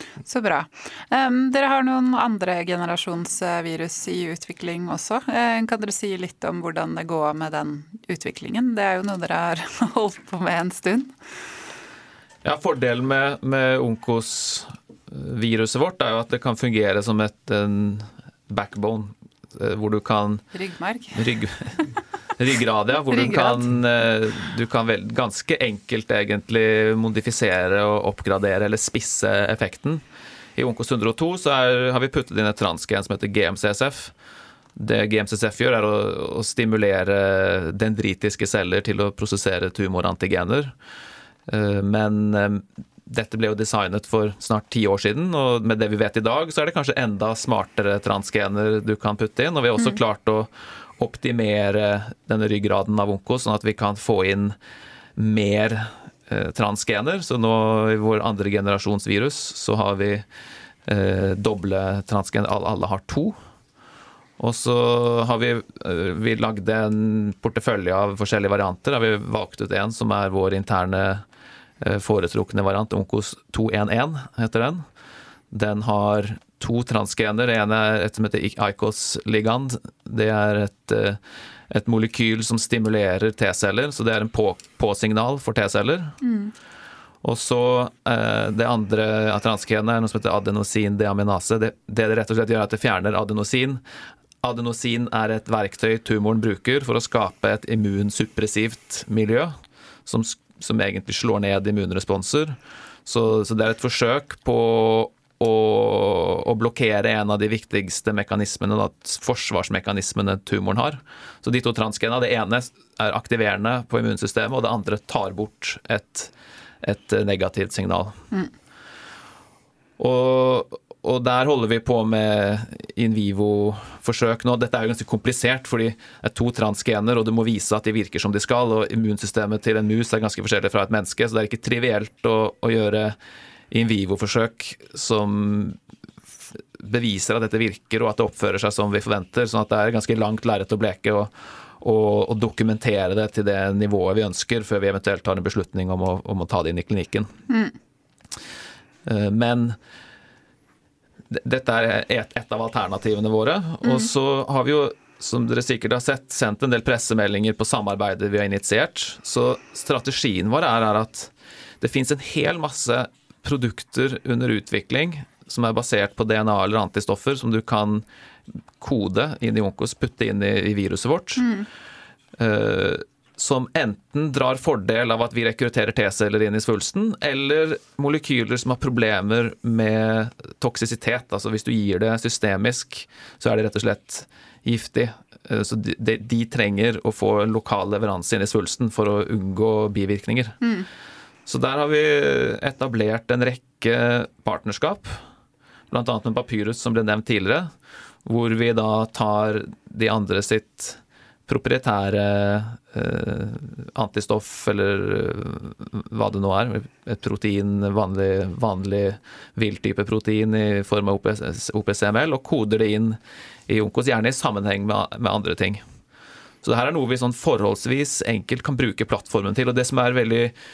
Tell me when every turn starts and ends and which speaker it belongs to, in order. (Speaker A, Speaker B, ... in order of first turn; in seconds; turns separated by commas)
Speaker A: 0.2-11.1, Speaker B: 12.4-20.4, Speaker A: 20.5-21.2, Speaker B: 21.1-21.8, Speaker B: 22.4-30.0, Speaker A: 23.1-23.6, Speaker B: 30.6-34.1, Speaker B: 34.8-40.7, Speaker B: 41.5-54.5, Speaker B: 55.2-60.2, Speaker B: 60.9-63.4, Speaker B: 64.4-71.2, Speaker B: 71.8-74.8, Speaker B: 75.5-81.2, Speaker B: 81.7-86.1, Speaker A: 86.2-86.5, Speaker B: 87.2-93.8, Speaker B: 94.4-99.5, Speaker B: 100.0-118.2, Speaker B: 120.0-133.2, Speaker B: 133.7-135.8, Speaker B: 136.5-147.3, Speaker A: 147.5-147.7, Speaker B: 149.0-149.8, Speaker B: 151.3-168.0, Speaker B: 168.8-171.5, Speaker A: 171.4-171.7, Speaker B: 172.4-190.6, Speaker A: 190.6-190.9, Speaker B: 191.4-195.2, Speaker B: 195.9-197.7, Speaker B: 198.2-215.8, Speaker B: 216.6-220.5